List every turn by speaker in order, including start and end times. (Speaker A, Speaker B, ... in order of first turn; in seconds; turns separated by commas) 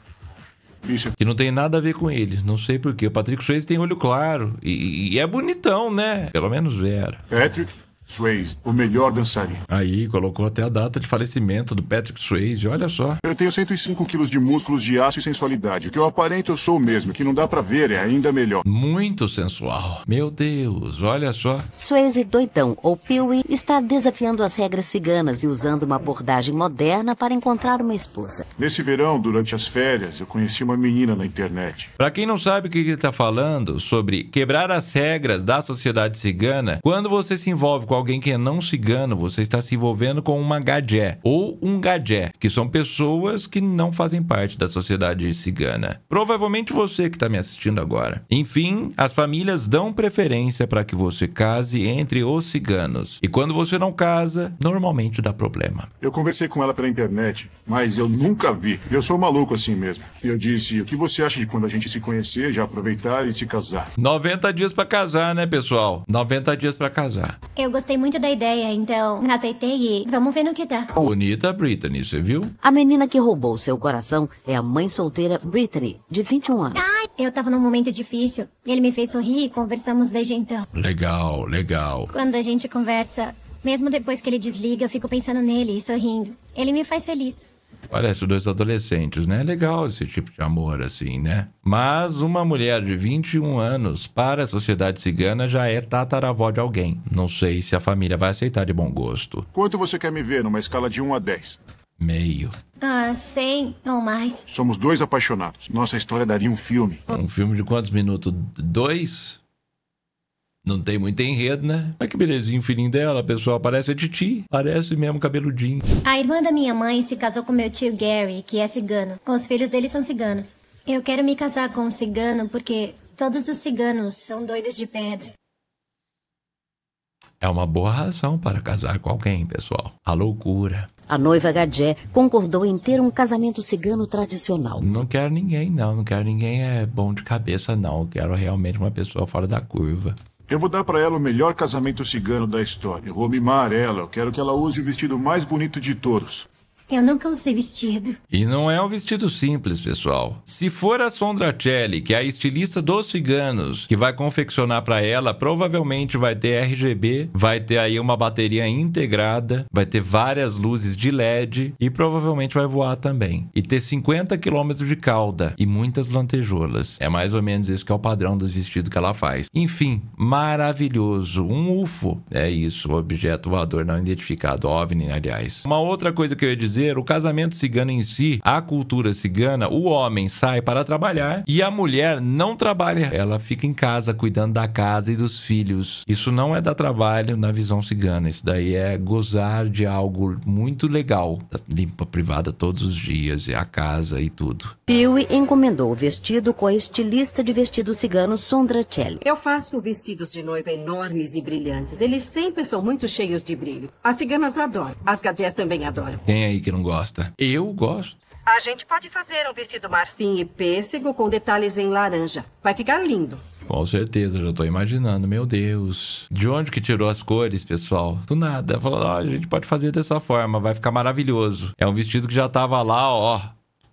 Speaker A: 0.8-1.1, Speaker B: 1.2-7.2, Speaker A: 7.3-9.6, Speaker B: 9.7-13.2, Speaker A: 13.2-18.6, Speaker B: 18.6-21.7, Speaker C: 21.7-28.5, Speaker A: 28.6-31.9, Speaker B: 32.0-55.9, Speaker A: 56.0-63.9, Speaker B: 64.0-67.4, Speaker D: 67.5-70.9, Speaker B: 71.0-72.5, Speaker C: 72.6-77.0, Speaker D: 76.7-80.7, Speaker B: 80.7-82.1, Speaker D: 82.1-87.5, Speaker B: 87.9-99.5, Speaker A: 99.5-101.6, Speaker B: 102.0-102.5, Speaker D: 102.8-104.5, Speaker A: 104.5-107.0, Speaker B: 107.1-109.4, Speaker B: 110.6-115.8, Speaker D: 116.0-125.3, Speaker B: 127.4-130.9, Speaker C: 131.1-134.9, Speaker B: 134.8-140.2, Speaker A: 140.5-146.5, Speaker D: 146.9-148.1, Speaker B: 148.3-194.7, Speaker C: 194.9-199.2, Speaker E: 199.2-206.2, Speaker B: 206.2-208.2, Speaker E: 208.5-213.4, Speaker B: 213.7-223.5